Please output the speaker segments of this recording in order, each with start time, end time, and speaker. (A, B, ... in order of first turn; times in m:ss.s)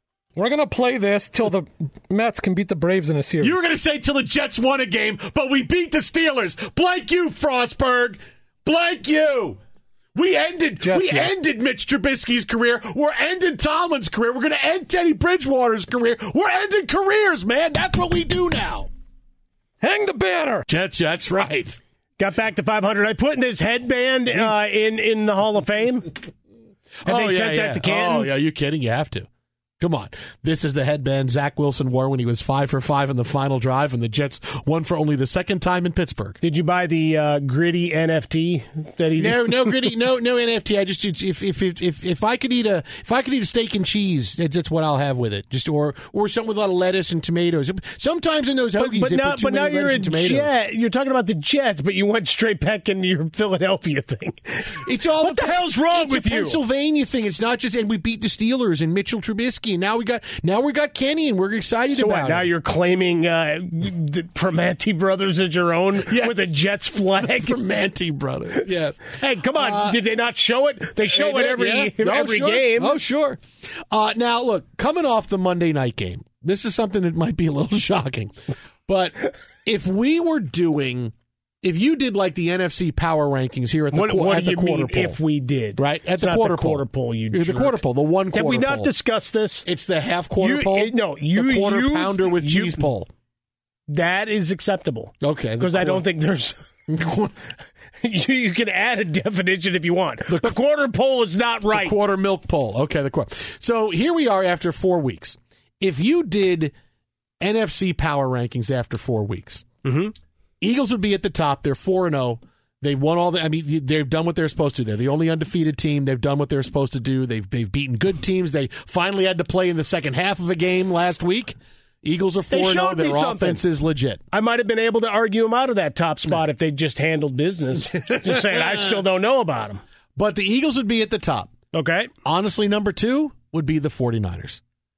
0:00.4-0:03.6 A
0:03.4-0:09.6 B
0:10.1-0:18.9 B
0:10.8-0:11.3 A
0:19.8-0:20.6 A
0:20.7-0:21.8 B
0:22.2-0:26.1 C
0:27.0-0:29.3 B
0:27.1-0:28.3 C
0:29.8-0:36.4 B
0:36.4-0:39.7 C
0:39.2-0:50.5 B
0:48.8-0:56.6 C
0:54.8-1:02.5 B
1:01.9-1:07.6 C
1:06.0-1:06.5 B
1:07.2-1:10.0 B
1:09.2-1:12.9 C
1:11.1-1:18.3 B
1:18.9-1:25.2 B
1:23.9-1:27.8 C
1:25.8-1:28.9 B
1:28.3-1:29.6 C
1:29.6-1:33.1 B
1:30.4-1:32.8 C
1:33.9-1:36.5 C
1:35.2-1:36.0 B
1:36.9-1:37.3 B
1:38.0-1:42.0 C
1:40.3-1:40.5 B
1:41.7-1:46.7 B
1:47.4-1:49.6 B
1:49.8-1:50.1 C
1:50.6-2:04.2 B
2:02.5-2:03.6 C
2:04.3-2:09.8 C
2:07.9-2:09.0 B
2:10.2-2:11.5 B
2:11.7-2:12.1 C
2:12.2-2:14.6 B